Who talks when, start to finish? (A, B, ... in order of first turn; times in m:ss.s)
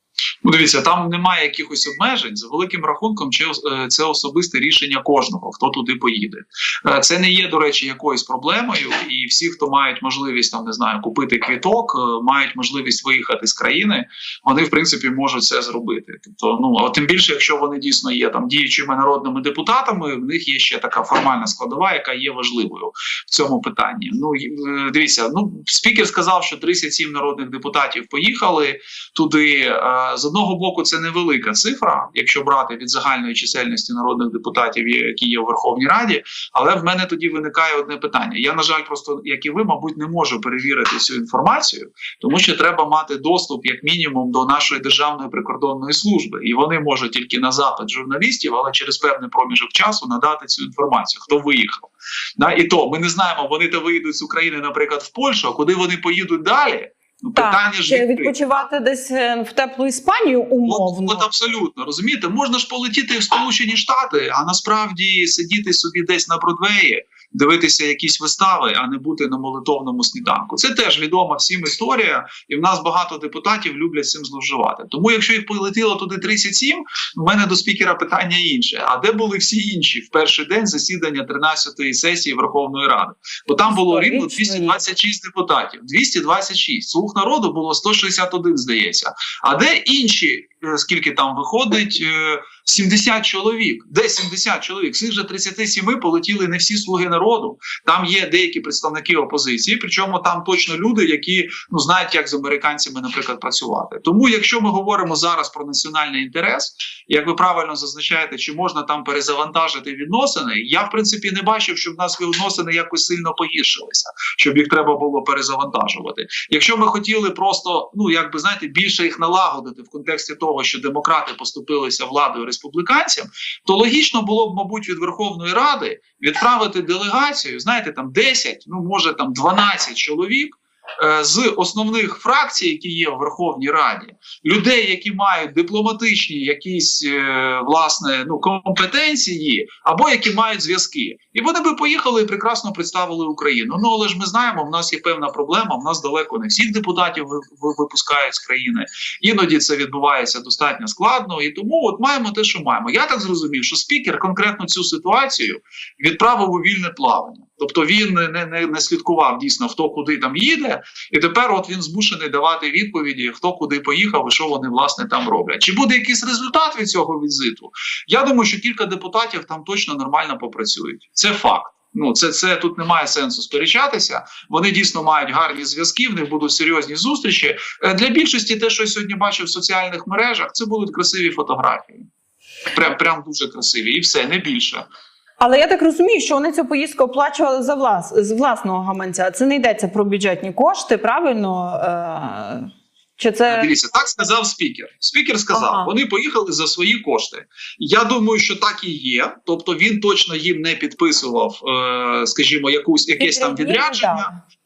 0:00.4-0:58.6 A
0:57.4-1:01.3 B
1:00.7-3:02.1 A
1:23.7-1:24.8 B
3:02.7-3:04.8 A
3:05.4-3:13.7 B
3:13.5-3:24.3 A
3:15.5-3:15.9 B
3:23.2-3:24.4 B